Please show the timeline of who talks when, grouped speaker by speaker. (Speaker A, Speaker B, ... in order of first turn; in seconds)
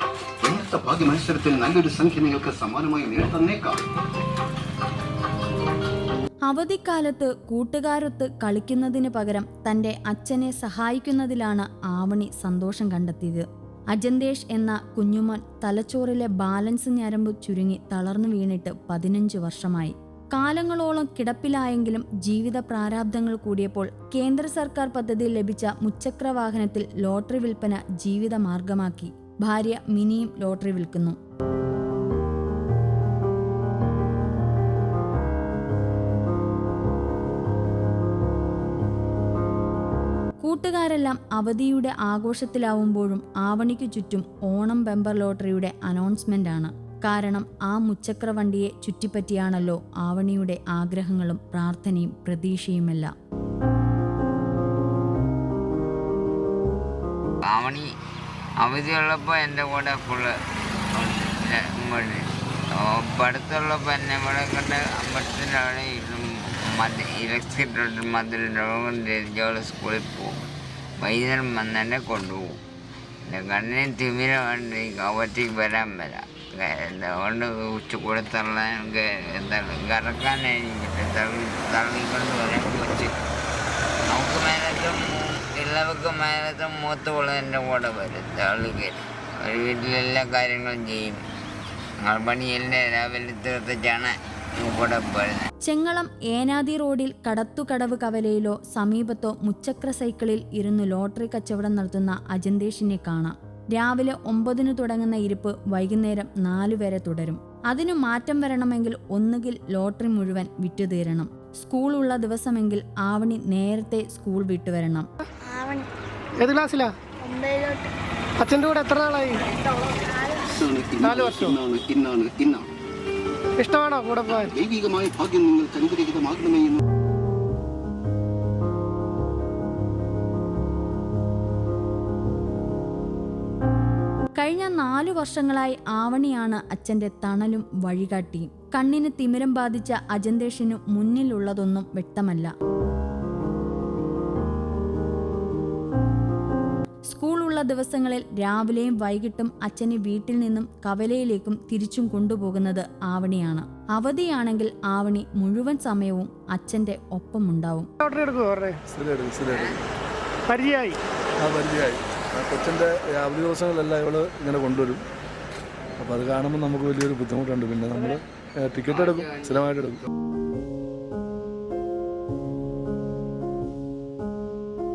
Speaker A: 0.5-3.8, 120.5-122.7, 124.5-126.8
Speaker B: 6.5-31.2, 40.4-53.1, 95.7-115.1, 134.4-142.5, 147.1-157.9
Speaker C: 57.5-57.9, 58.6-60.3, 61.0-72.6, 73.3-83.2, 84.1-91.2, 92.0-95.5
Speaker D: 115.4-115.9, 117.2-117.9, 119.5-120.5
Speaker E: 116.4-116.9, 118.4-119.5, 121.0-121.6, 123.6-124.5, 158.0-158.8, 160.5-161.0
Speaker F: 158.9-159.8, 161.4-165.0, 166.0-170.0